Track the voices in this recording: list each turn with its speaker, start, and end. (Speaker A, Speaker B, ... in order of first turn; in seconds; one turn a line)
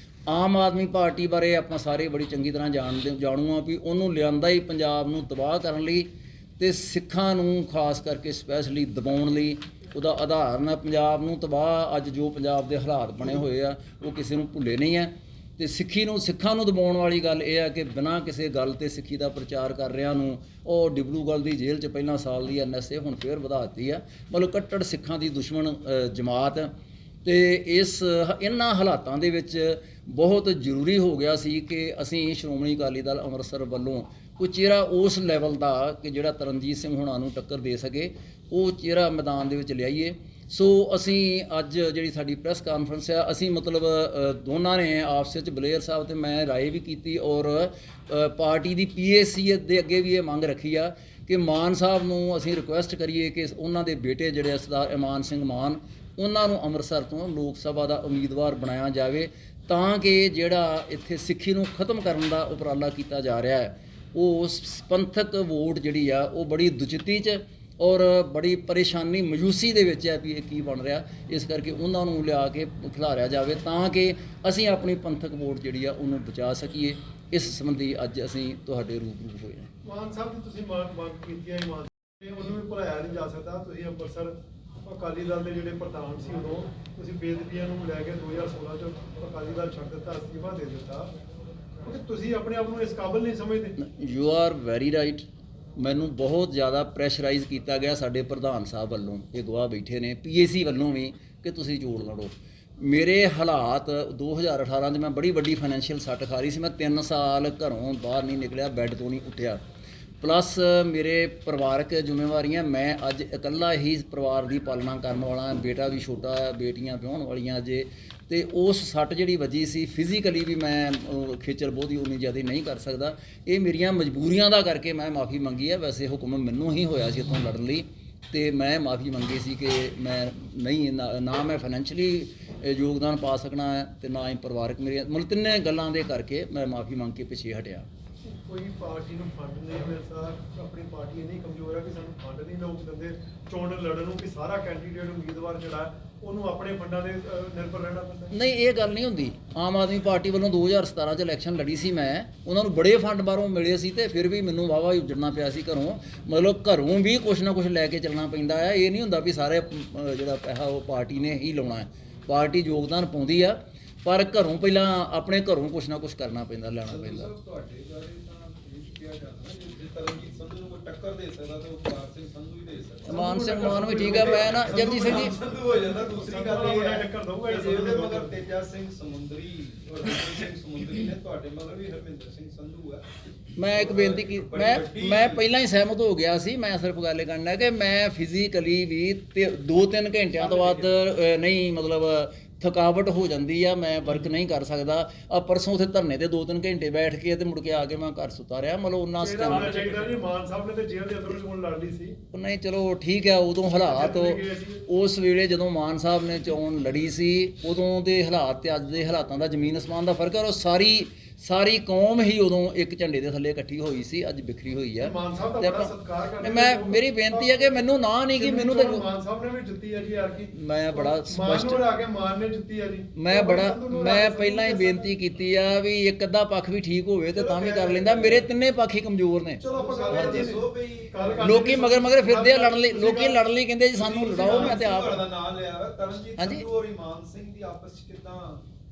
Speaker A: 0.3-26.7
Speaker A: 27.2-79.7
Speaker B: 79.8-84.3
Speaker B: 84.8-91.1
Speaker B: 91.8-93.7
Speaker A: 93.8-109.6
Speaker A: 110.2-137.9
Speaker B: 138.2-148.3
Speaker A: 148.3-167.3
Speaker C: 166.8-185.5
Speaker A: 173.1-175.3
Speaker B: 173.1-175.4
Speaker B: 175.9-178.3
Speaker A: 183.6-199.8
Speaker B: 190.4-190.8
Speaker B: 199.2-202.2
Speaker C: 199.4-200.1
Speaker A: 202.3-219.0
Speaker B: 203.8-204.8
Speaker B: 215.0-217.8
Speaker B: 218.3-225.1
Speaker A: 220.5-221.8
Speaker A: 223.1-230.6
Speaker B: 227.4-228.3
Speaker C: 227.4-228.3
Speaker C: 229.6-231.8
Speaker B: 229.6-233.4
Speaker A: 231.4-235.2
Speaker C: 233.9-238.6
Speaker B: 234.2-234.9
Speaker A: 236.4-236.6